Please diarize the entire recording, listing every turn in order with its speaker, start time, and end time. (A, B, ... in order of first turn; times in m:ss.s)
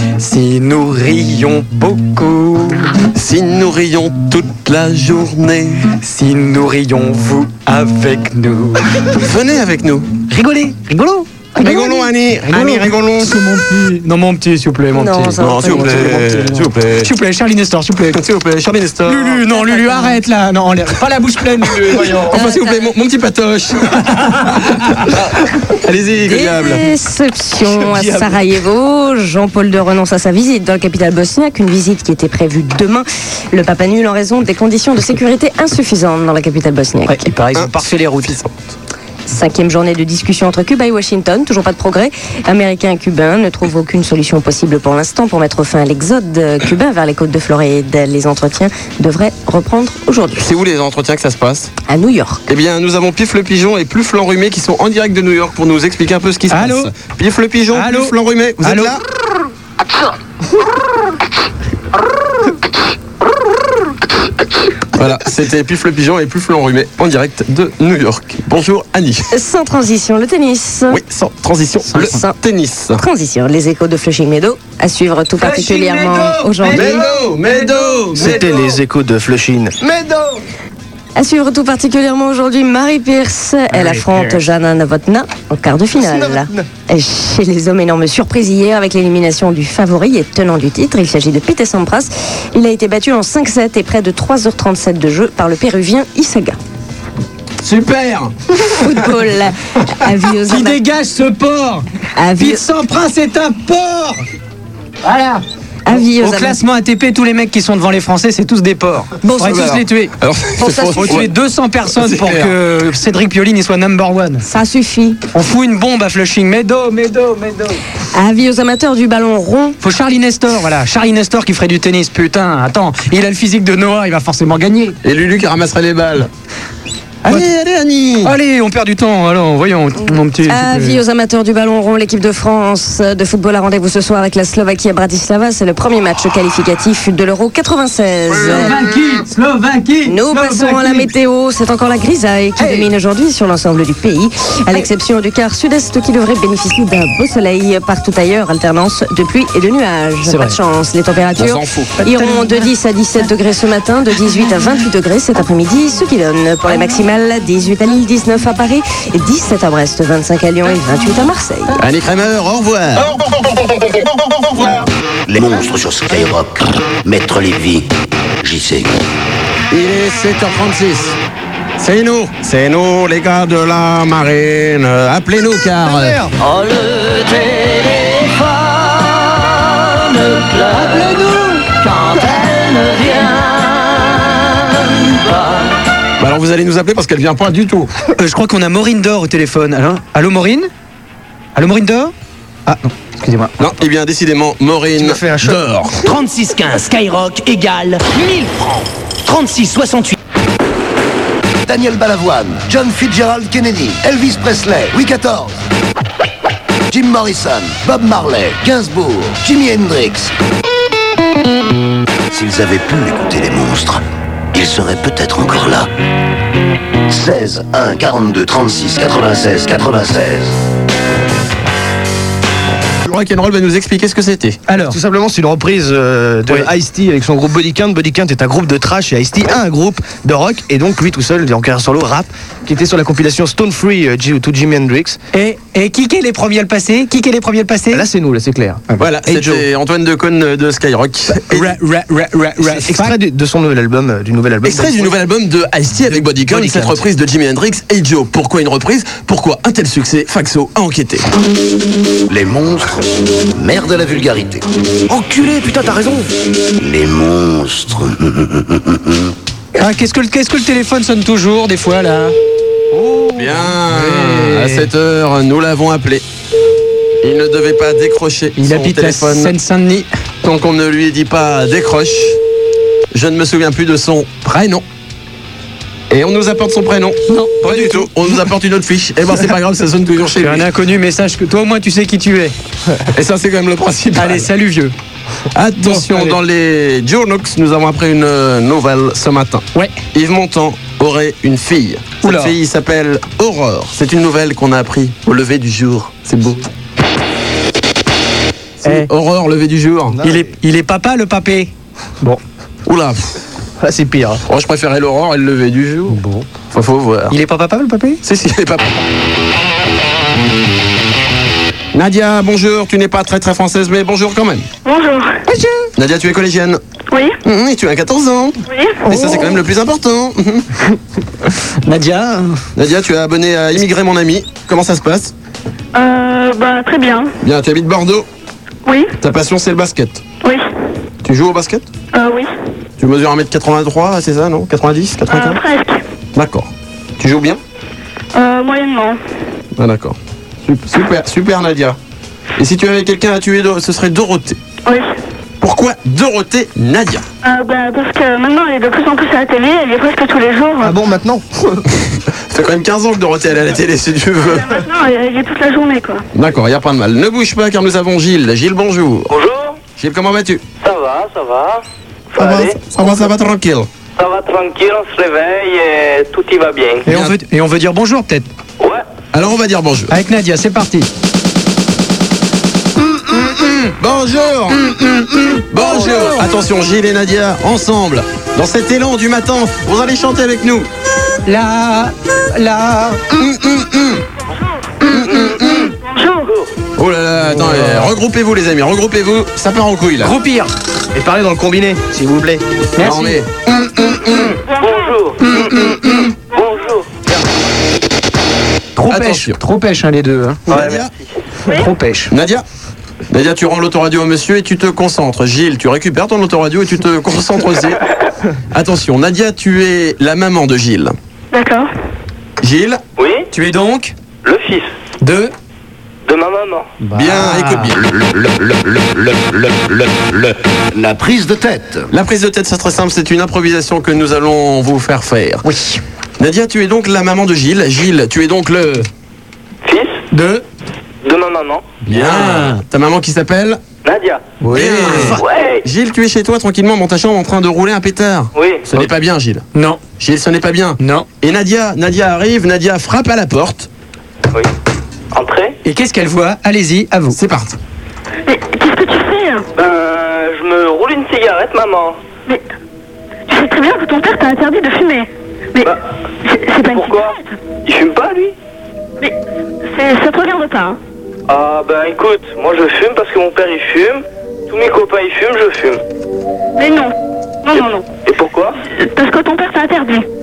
0:00.2-0:02.9 A
0:03.1-0:05.9 B
0:06.0-0:08.9 A
0:09.1-0:10.1 B
0:10.3-0:11.8 A
0:11.6-0:13.4 B
0:11.6-0:12.1 C
0:12.4-0:16.1 A
0:14.9-0:16.7 C
0:15.4-0:17.1 B
0:17.0-0:18.2 A
0:18.1-0:19.4 B
0:19.1-0:22.1 A
0:19.5-0:20.2 C
0:21.7-0:26.8 B
0:21.9-0:22.3 D
0:22.3-0:22.9 C
0:26.2-0:37.3 C
0:27.8-0:28.4 D
0:37.1-0:38.4 A
0:37.6-0:38.6 B
0:39.3-0:50.5 C
0:50.4-0:51.7 B
0:51.9-0:52.4 C
0:52.5-0:59.0 B
0:56.5-0:56.9 A
0:57.7-0:59.0 A
1:04.9-1:09.3 B
1:09.3-1:11.0 C
1:10.9-1:13.0 B
1:11.9-1:12.1 A
1:11.9-1:12.4 C
1:13.0-1:17.1 C
1:15.4-1:18.6 A
1:16.7-1:18.6 B
1:18.2-1:20.4 D
1:21.2-1:36.6 C
1:23.8-1:24.4 A
1:26.0-1:26.7 D
1:37.6-1:39.1 B
1:38.7-1:40.8 C
1:40.5-1:41.9 A
1:42.2-1:42.6 C
1:42.4-1:44.2 A
1:45.0-1:54.5 A
1:45.9-1:46.6 C
1:49.2-1:49.7 C
1:49.4-1:51.3 B
1:50.7-1:51.1 C
1:51.9-1:52.6 B
1:54.4-1:55.2 C
1:55.3-1:57.8 A
1:58.1-1:59.8 C
1:59.8-2:05.0 A
2:05.0-2:06.3 B
2:07.2-2:08.4 B
2:08.2-2:11.0 A
2:10.4-2:18.8 C
2:18.3-2:21.1 A
2:18.4-2:18.7 B
2:20.1-2:41.8 C
2:22.6-2:22.9 A
2:30.2-2:30.6 A
2:31.4-2:32.0 B
2:32.0-2:32.7 A
2:41.8-2:43.6 B
2:44.5-2:44.8 B
2:45.3-2:47.9 E
2:48.4-2:48.9 E
2:49.7-2:51.2 B
2:51.8-2:56.2 B
2:55.8-2:56.3 D
3:00.7-3:01.7 A
3:06.2-3:07.9 B
3:08.2-3:10.7 A
3:11.6-3:12.1 A
3:12.7-3:13.6 A
3:13.6-3:16.0 B
3:15.0-3:15.6 D
3:16.0-3:20.2 F
3:21.7-3:25.6 E
3:26.9-3:30.3 E
3:32.3-3:34.0 E
3:34.5-3:35.9 E
3:37.1-3:40.5 E
3:43.0-3:44.6 B
3:44.7-3:45.0 A
3:44.9-3:55.2 D
3:55.3-3:58.1 A
3:57.9-3:58.9 D
3:58.9-3:59.5 A
3:59.0-4:01.8 B
4:01.4-4:03.2 A
4:02.6-4:05.1 D
4:04.6-4:11.2 B
4:06.2-4:07.0 D
4:12.3-4:12.8 E
4:13.6-4:14.6 E
4:15.1-4:16.3 D
4:16.8-4:18.2 E
4:19.8-4:22.4 A
4:23.0-4:24.9 A
4:23.4-4:26.2 B
4:27.2-4:29.5 B
4:28.6-4:30.1 A
4:30.4-4:32.4 B
4:33.1-4:34.8 B
4:36.1-4:40.7 B
4:37.3-4:38.3 A
4:40.4-4:42.6 A
4:43.1-4:44.5 B
4:44.2-4:44.9 A
4:45.5-4:56.7 B
4:45.8-4:46.4 A
4:52.2-4:52.6 A
4:58.8-5:00.2 B
4:58.8-4:59.1 A
5:00.1-5:00.5 D
5:00.2-5:01.7 A
5:02.9-5:03.4 B
5:03.8-5:04.4 D
5:04.5-5:06.2 B
5:06.1-5:06.5 A
5:06.7-5:07.4 B
5:07.3-5:08.2 A
5:08.2-5:09.0 B
5:11.9-5:14.7 B
5:14.8-5:15.4 G
5:15.5-5:15.9 A
5:16.0-5:16.8 B
5:17.1-5:17.4 G
5:17.4-5:20.7 B
5:18.7-5:19.0 G
5:19.1-5:19.6 A
5:21.8-5:22.6 A
5:22.8-5:25.3 B
5:26.0-5:27.3 G
5:27.4-5:28.3 B
5:28.9-5:29.1 G
5:29.2-5:30.2 B
5:31.2-5:31.9 B
5:32.1-5:32.5 G
5:33.0-5:35.6 B
5:35.3-5:36.0 G
5:36.4-5:37.6 B
5:38.4-5:39.2 G
5:39.8-5:42.0 B
5:42.6-5:44.6 B
5:45.6-5:47.2 B
5:47.4-5:51.0 G
5:50.8-5:51.8 D
5:52.5-5:54.8 B
5:54.5-5:56.2 G
5:56.3-5:59.3 B
5:59.3-5:59.7 H
6:00.0-6:00.6 B
6:00.8-6:01.8 H
6:02.4-6:02.7 H
6:02.4-6:03.9 B
6:04.2-6:07.0 H
6:07.0-6:08.5 A
6:07.1-6:07.4 B
6:09.3-6:10.2 B
6:10.1-6:11.1 A
6:13.3-6:13.9 A
6:14.0-6:14.8 B
6:14.9-6:16.5 A
6:15.7-6:20.9 B
6:21.5-6:23.3 A
6:23.4-6:24.2 B
6:25.1-6:25.9 B
6:25.9-6:26.5 G
6:27.0-6:30.3 B
6:30.2-6:30.7 A
6:31.1-6:32.6 D
6:33.0-6:33.4 A
6:33.0-6:34.6 B
6:34.7-6:35.2 G
6:34.8-6:35.7 H
6:35.4-6:36.3 A
6:36.5-6:37.0 H
6:39.0-6:40.8 A
6:39.1-6:39.6 B
6:40.7-6:41.1 B
6:41.7-6:42.3 A
6:42.3-6:42.6 B
6:43.3-6:48.0 B
6:48.7-6:51.2 B
6:51.5-6:51.9 G
6:52.6-6:53.0 B
6:53.2-6:53.5 H
6:53.5-6:54.2 A
6:54.4-6:54.9 H
6:55.2-6:55.5 A
6:56.3-6:56.8 H
6:57.0-6:57.9 A
6:57.1-6:58.0 B
6:57.9-7:02.0 E
7:02.1-7:05.6 B
7:05.6-7:06.0 A
7:06.4-7:09.1 B
7:09.8-7:10.2 H
7:10.3-7:10.6 A
7:11.2-7:11.8 H
7:12.1-7:13.8 B
7:12.1-7:12.8 A
7:14.0-7:14.4 H
7:14.6-7:15.4 A
7:14.7-7:19.6 B
7:15.4-7:15.8 H
7:18.6-7:18.8 H
7:19.8-7:20.0 A
7:20.2-7:23.9 B
7:21.0-7:21.3 A
7:25.3-7:25.8 H
7:25.8-7:27.4 A
7:27.3-7:27.8 B
7:28.5-7:29.7 G
7:29.8-7:32.2 H
7:33.5-7:37.6 G
7:36.9-7:38.5 H
7:39.9-7:41.0 G
7:41.5-7:46.0 H
7:46.8-7:48.1 G
7:47.7-7:48.8 H
7:48.9-7:50.3 G